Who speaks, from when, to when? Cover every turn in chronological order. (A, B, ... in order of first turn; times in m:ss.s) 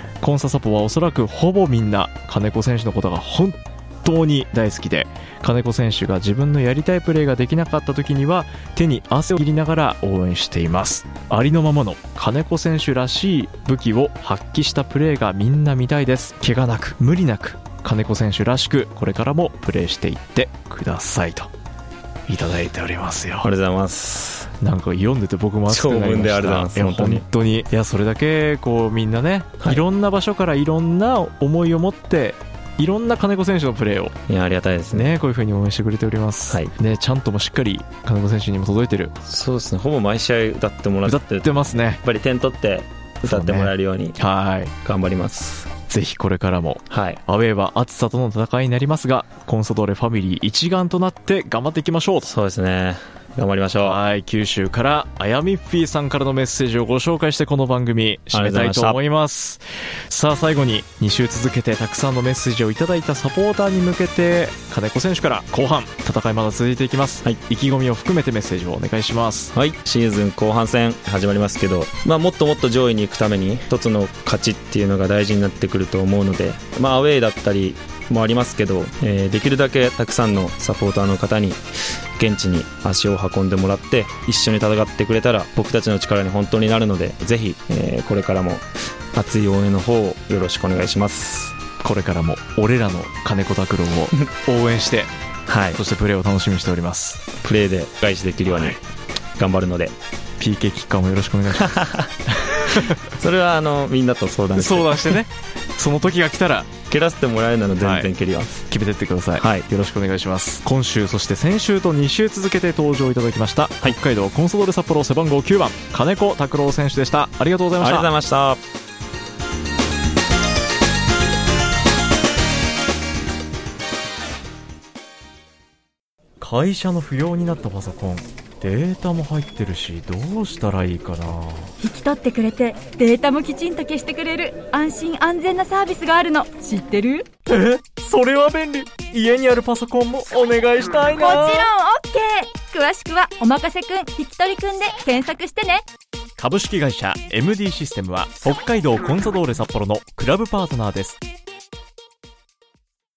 0:00.2-0:21.5 A
0:22.3-0:23.5 A
0:23.4-0:24.5 B
0:24.6-0:34.2 A
0:25.7-0:27.2 B
0:34.3-0:35.1 B
0:34.9-0:39.1 A
0:39.3-0:44.2 B
0:41.0-0:42.0 A
0:43.3-0:44.7 A
0:44.8-0:45.7 B
0:45.9-0:52.3 A
0:46.9-0:47.2 B
0:52.3-0:54.0 B
0:53.8-1:09.5 A
0:58.3-0:59.0 B
1:09.5-1:21.6 B
1:22.2-1:31.6 B
1:31.8-1:35.1 A
1:35.5-1:35.8 B
1:35.7-1:37.2 A
1:37.4-1:38.8 B
1:38.5-1:38.8 A
1:39.4-1:39.9 B
1:40.4-1:43.0 A
1:41.6-1:42.1 B
1:42.8-1:45.2 B
1:44.6-1:46.7 A
1:46.9-1:48.7 B
1:47.8-1:48.1 A
1:48.7-1:58.1 A
1:49.4-1:49.6 B
1:57.8-1:58.6 B
2:06.4-2:11.7 A
2:11.8-2:17.3 C
2:17.5-2:21.7 A
2:21.2-2:25.8 C
2:26.4-2:31.2 A